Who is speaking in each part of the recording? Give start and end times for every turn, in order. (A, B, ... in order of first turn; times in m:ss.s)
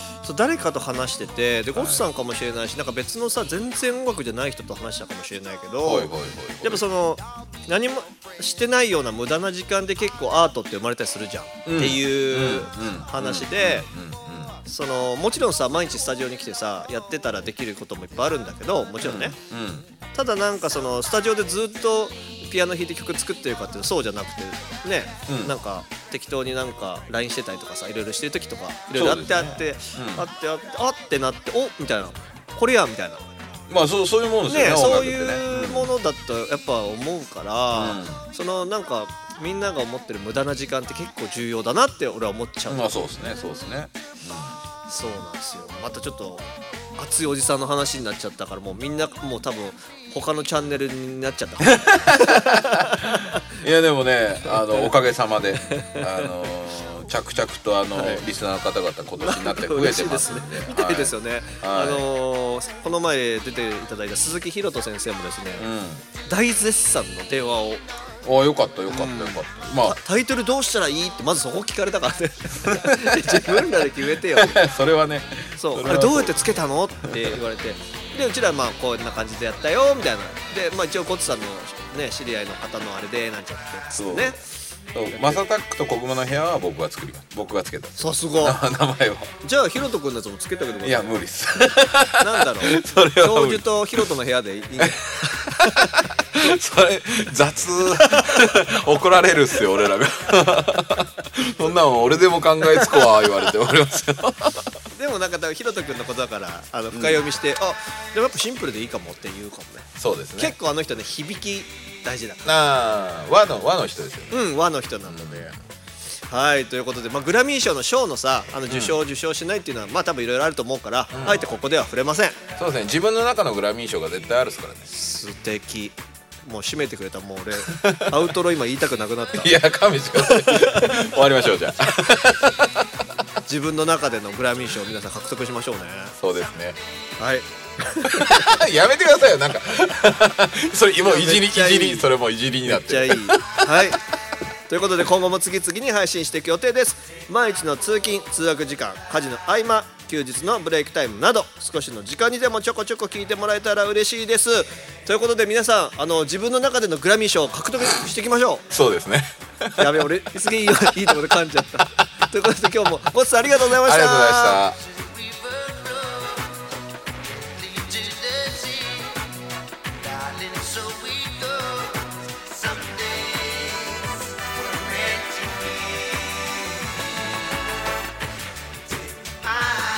0:00.2-0:13.9 A
0:01.7-0:02.0 B
0:05.8-0:06.8 B
0:11.6-0:14.6 B
0:14.6-0:19.4 A
0:19.0-0:19.8 B
0:20.1-0:33.3 A
0:25.3-0:25.5 B
0:28.9-0:30.3 B
0:33.7-0:35.9 B
0:34.5-0:42.9 A
0:37.7-0:38.2 B
0:42.7-0:44.6 B
0:44.9-0:53.4 A
0:51.8-1:02.0 B
0:55.6-0:56.3 A
0:57.9-0:58.2 A
0:59.2-1:05.6 A
1:05.6-1:06.0 B
1:06.2-1:07.8 A
1:08.2-1:10.0 B
1:08.9-1:14.6 A
1:12.6-1:17.4 B
1:15.6-1:24.4 A
1:23.9-1:24.4 B
1:24.9-1:29.3 B
1:25.1-1:25.4 A
1:28.0-1:28.6 A
1:29.4-1:31.1 A
1:30.8-1:34.1 B
1:32.2-1:36.0 A
1:34.8-1:44.7 B
1:38.0-1:38.6 A
1:42.8-1:43.1 A
1:44.9-1:52.6 A
1:46.9-1:47.2 B
1:50.0-1:50.6 B
1:52.4-1:54.4 B
1:54.3-1:55.5 A
1:55.0-1:55.6 B
1:56.2-2:02.4 A
1:58.7-1:59.0 B
2:01.1-2:01.5 B
2:02.6-2:04.9 B
2:04.9-2:09.6 A
2:07.7-2:08.2 B
2:09.3-2:12.9 B
2:10.2-2:11.0 A
2:13.4-2:16.1 A
2:16.2-2:16.8 B
2:17.2-2:18.4 A
2:18.1-2:23.9 B
2:21.0-2:22.1 A
2:22.6-2:24.0 A
2:24.7-2:38.6 A
2:38.7-2:40.0 B
2:39.8-2:44.6 A
2:43.6-2:44.8 B
2:47.7-2:49.0 C
2:50.2-2:51.9 C
2:52.8-2:53.5 C
2:55.0-2:55.6 C